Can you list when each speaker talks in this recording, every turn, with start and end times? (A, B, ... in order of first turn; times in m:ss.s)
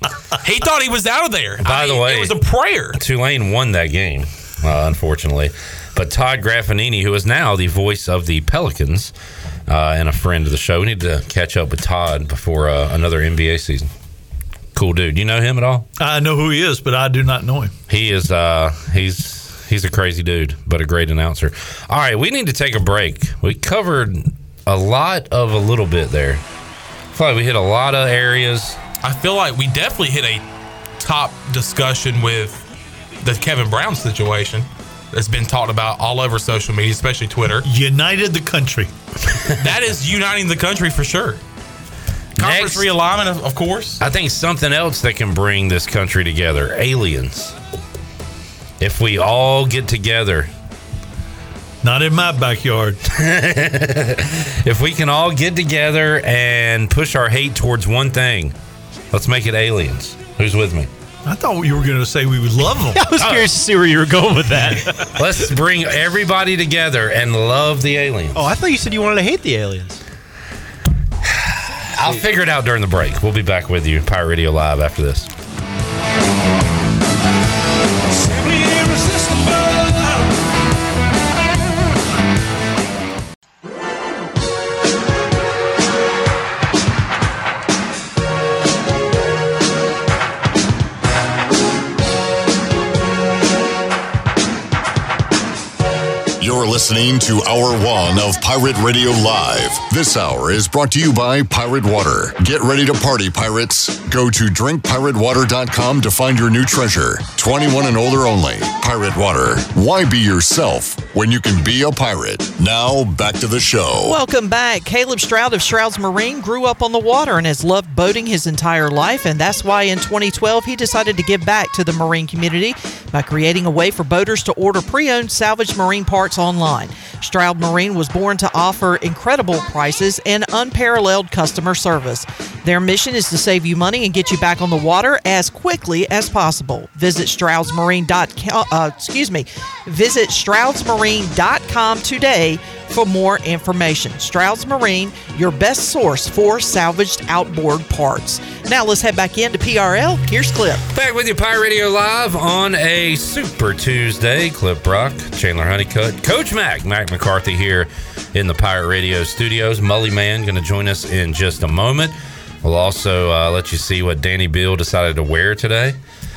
0:00.4-0:03.0 A
0:01.6-0:02.4 B
0:03.0-0:09.1 B
0:09.7-0:13.9 B
0:14.8-0:15.9 B
0:16.0-0:17.7 C
0:17.9-0:26.4 B
0:27.1-0:28.8 B
0:29.0-0:30.4 A
0:31.0-0:32.6 A
0:33.2-0:37.7 A
0:37.6-0:38.9 C
0:39.6-0:41.4 A
0:42.4-0:42.9 B
0:42.4-0:44.0 A
0:44.0-0:47.6 B
0:48.8-0:50.5 B
0:51.8-0:53.0 C
0:53.1-0:58.5 B
0:59.1-1:00.9 B
1:01.2-1:03.1 C
1:02.9-1:05.2 D
1:03.2-1:03.5 B
1:05.2-1:08.5 B
1:08.4-1:10.0 D
1:11.4-1:15.3 B
1:18.1-1:20.2 E
1:36.4-1:54.2 F
1:54.0-2:30.8 G
2:30.9-2:46.0 B